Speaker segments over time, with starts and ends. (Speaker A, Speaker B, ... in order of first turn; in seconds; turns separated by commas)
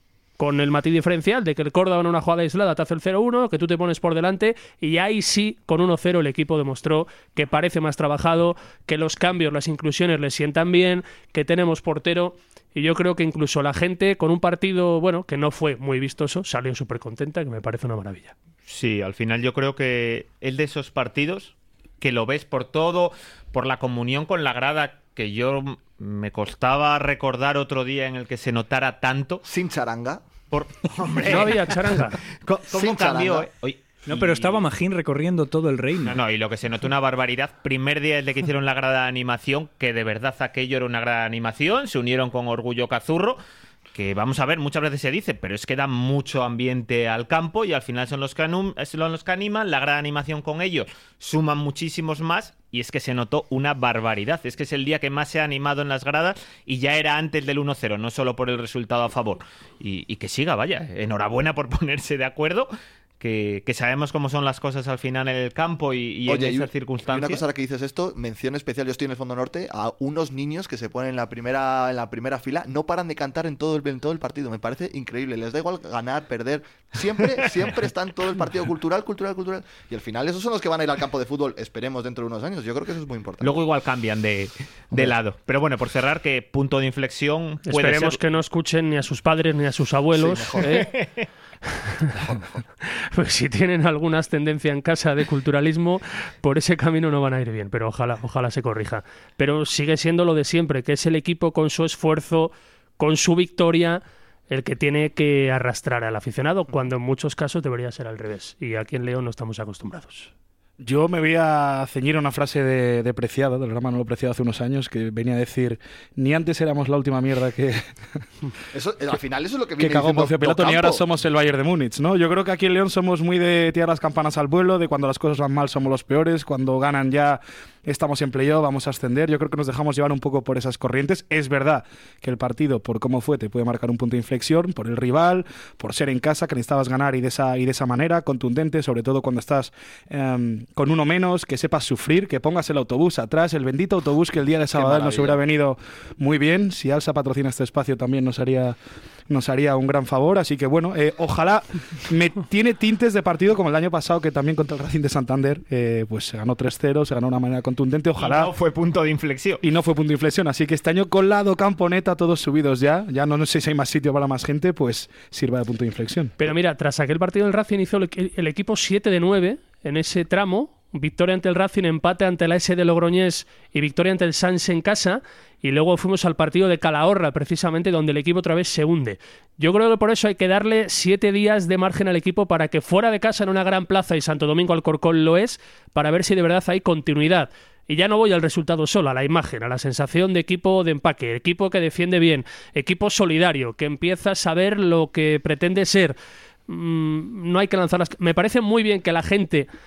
Speaker A: 0.4-18.3, Speaker B: 18.7-29.4, Speaker C: 29.5-30.2, Speaker B: 30.5-31.8, Speaker A: 31.2-32.2, Speaker B: 32.5-34.6, Speaker C: 32.7-33.5, Speaker D: 34.1-36.2, Speaker B: 36.0-43.4, Speaker B: 43.9-67.4, Speaker C: 66.3-83.6, Speaker B: 83.4-88.2, Speaker C: 84.9-85.2, Speaker A: 87.7-90.9, Speaker C: 90.1-90.8, Speaker B: 90.6-91.3, Speaker A: 91.7-92.1, Speaker C: 92.1-92.6, Speaker A: 92.8-110.3, Speaker E: 110.8-118.2, Speaker C: 118.7-121.0, Speaker E: 119.8-148.8, Speaker C: 144.7-145.4, Speaker E: 149.3-158.5, Speaker B: 158.2-159.6, Speaker E: 159.6-166.3, Speaker A: 166.4-196.2, Speaker A: 196.7-199.7